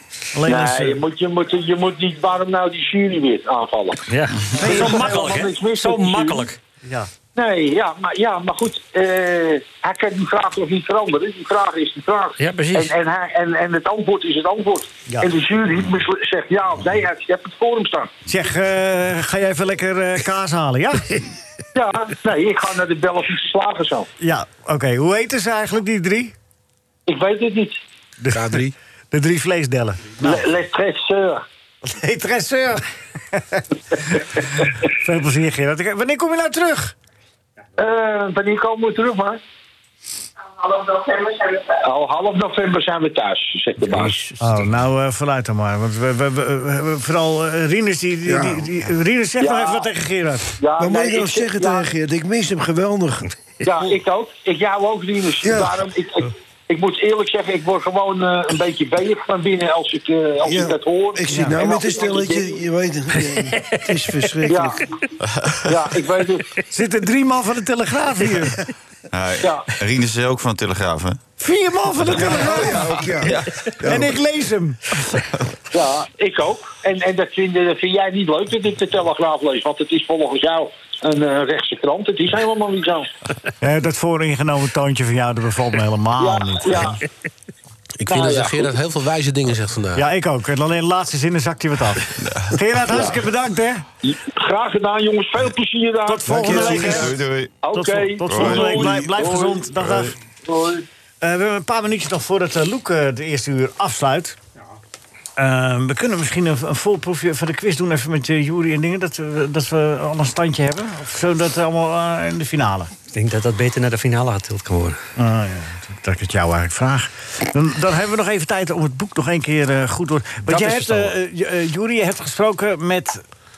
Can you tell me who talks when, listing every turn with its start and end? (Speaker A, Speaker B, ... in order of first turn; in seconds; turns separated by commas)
Speaker A: 0.3-1.0, Speaker B: 0.5-6.5, Speaker C: 4.1-6.6, Speaker A: 4.5-5.2, Speaker A: 6.8-7.1, Speaker B: 7.3-18.1, Speaker C: 12.4-12.9, Speaker A: 18.3-21.2, Speaker B: 21.7-24.1, Speaker A: 24.2-26.3, Speaker B: 27.1-27.8, Speaker A: 28.2-28.6, Speaker D: 28.3-28.7, Speaker A: 29.1-30.4, Speaker B: 30.2-31.4, Speaker A: 31.8-36.9, Speaker B: 37.8-39.4, Speaker B: 40.6-44.3, Speaker A: 44.4-50.5, Speaker E: 48.2-48.6, Speaker B: 49.4-49.9, Speaker B: 50.6-51.9, Speaker E: 50.8-53.3, Speaker B: 53.6-62.6, Speaker E: 55.4-55.8, Speaker E: 60.4-64.8, Speaker A: 61.3-61.6, Speaker B: 64.5-64.8, Speaker F: 65.3-65.6, Speaker B: 65.7-66.4, Speaker A: 66.7-68.6, Speaker F: 69.1-71.2, Speaker B: 69.4-69.7, Speaker A: 71.4-72.9, Speaker E: 72.1-74.2, Speaker F: 72.2-73.6, Speaker A: 73.8-75.0, Speaker B: 75.7-83.1, Speaker A: 83.6-87.0, Speaker B: 86.2-87.0, Speaker D: 88.0-90.0, Speaker B: 88.1-88.7, Speaker A: 90.0-93.8, Speaker F: 92.2-92.5, Speaker B: 92.9-93.2, Speaker B: 94.0-99.7, Speaker A: 96.1-97.2, Speaker E: 96.4-96.7, Speaker F: 96.5-97.5, Speaker A: 97.7-100.2, Speaker F: 98.2-98.9, Speaker B: 100.4-100.8, Speaker A: 101.2-104.4, Speaker A: 105.4-112.9, Speaker C: 113.1-115.0, Speaker A: 115.2-123.2, Speaker C: 120.5-121.1